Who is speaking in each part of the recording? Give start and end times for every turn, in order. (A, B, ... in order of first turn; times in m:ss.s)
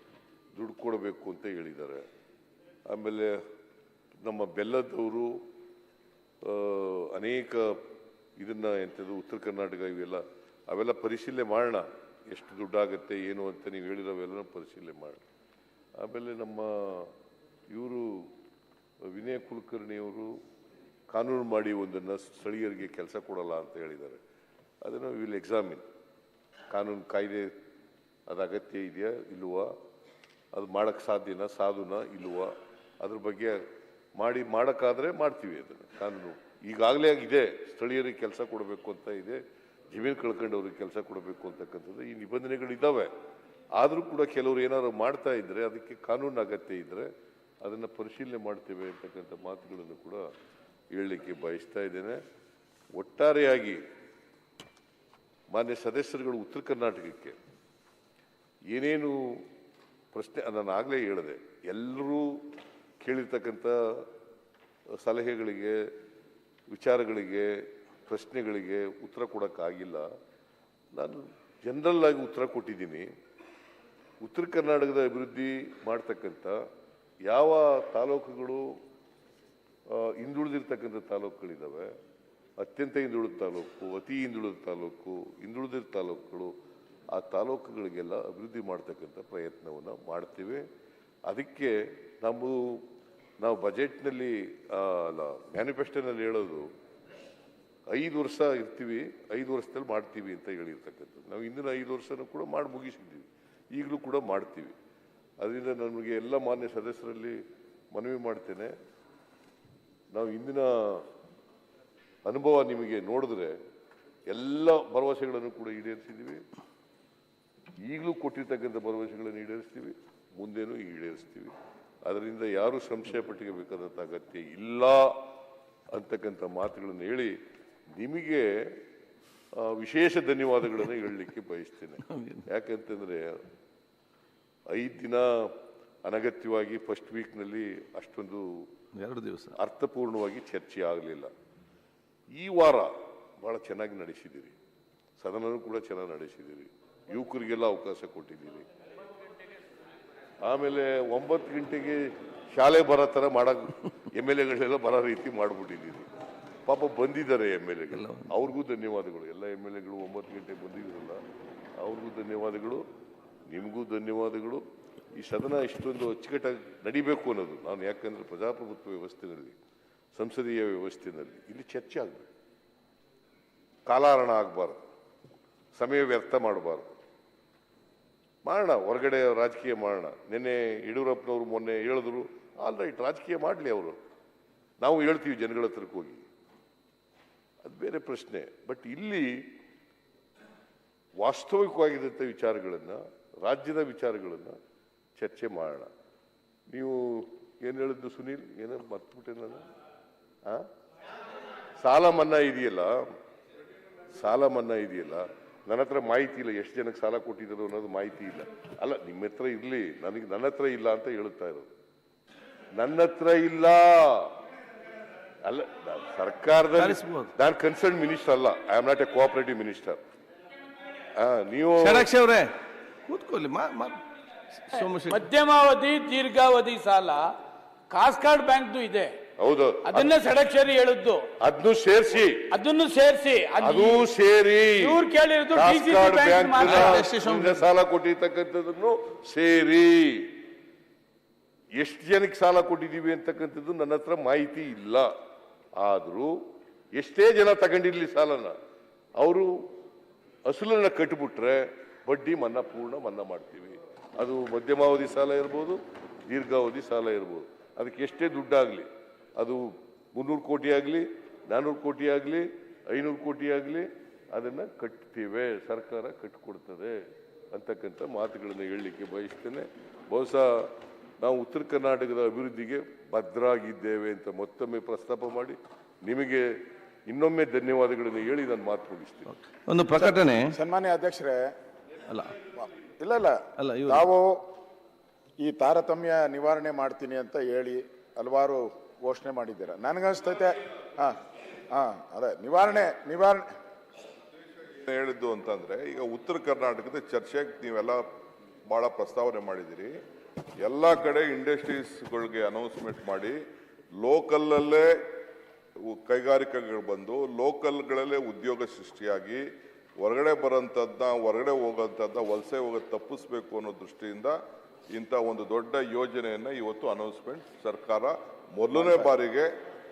0:00.5-0:02.0 A
0:02.9-0:03.4 A
0:04.2-0:05.4 A
0:06.4-0:07.8 A
0:08.4-0:15.2 A
0:16.0-0:17.1 A
0:17.7-0:18.3 A
0:19.1-0:20.4 A
0:21.1-0:24.2 A
0:24.8-0:25.8 A
0:26.7-0:27.5 A
0:28.3-0:29.7 A
0:30.5-0:33.6 A
0:34.2-0:39.4 A
0:39.9-0:43.1 A
0:43.8-0:47.1 A
0:47.6-0:50.2 A
0:50.9-0:52.2 A
0:53.0-0:53.8 A
0:55.5-0:57.4 A
0:58.7-0:59.4 A
1:00.1-1:02.4 A
1:03.0-1:04.1 A
1:05.0-1:05.8 A
1:06.7-1:10.1 A
1:10.9-1:13.1 A
1:14.2-1:16.6 A
1:17.2-1:18.7 A
1:19.9-1:21.9 A
1:22.6-1:26.5 A
1:27.1-1:30.7 A
1:31.3-1:32.8 A
1:33.4-1:36.7 A
1:37.9-1:44.8 A
1:45.4-1:47.4 A
1:47.9-1:48.7 A
1:50.1-1:51.1 A
1:52.2-1:53.6 A
1:54.3-1:56.4 A
1:57.8-2:01.5 A
2:02.0-2:05.2 A
2:05.9-2:07.4 A
2:08.0-2:08.7 A
2:09.6-2:13.4 A
2:14.7-2:18.7 A
2:19.0-2:19.5 B
2:19.6-2:21.3 A
2:22.3-2:24.5 A
2:25.2-2:28.6 A
2:30.4-2:36.1 A
2:36.6-2:41.2 A
2:41.8-2:42.8 A
2:43.5-2:49.6 A
2:50.1-2:52.3 A
2:53.9-2:54.8 A
2:55.8-2:56.9 A
2:58.4-3:04.0 A
3:04.8-3:06.2 A
3:07.6-3:09.4 A
3:11.2-3:14.6 A
3:15.2-3:15.9 A
3:16.7-3:19.7 A
3:21.8-3:23.0 A
3:24.1-3:31.7 A
3:32.7-3:34.3 A
3:35.4-3:40.0 A
3:36.8-3:37.3 B
3:41.2-3:42.1 A
3:41.8-3:42.5 B
3:43.1-3:44.0 B
3:44.6-3:45.2 B
3:45.1-3:47.3 C
3:47.9-3:49.2 C
3:49.4-3:50.1 A
3:49.8-3:51.3 C
3:51.4-3:52.5 A
3:52.5-3:54.1 C
3:53.6-3:55.0 A
3:54.8-3:57.1 C
3:55.5-4:00.3 A
3:56.9-3:57.2 B
4:01.8-4:05.1 A
4:05.8-4:06.4 A
4:06.9-4:08.6 A
4:09.2-4:09.5 A
4:10.5-4:27.0 A
4:27.5-4:36.5 A
4:37.1-4:39.4 A
4:39.7-4:40.5 B
4:40.0-4:41.5 D
4:42.6-4:44.4 D
4:43.6-4:44.1 B
4:45.4-4:51.2 D
4:51.7-4:53.5 D
4:54.8-4:58.0 E
4:58.7-5:00.0 E
5:00.6-5:03.4 E
5:04.0-5:04.9 E
5:05.9-5:09.4 E
5:10.0-5:14.4 E
5:14.9-5:19.5 E
5:18.7-5:19.1 D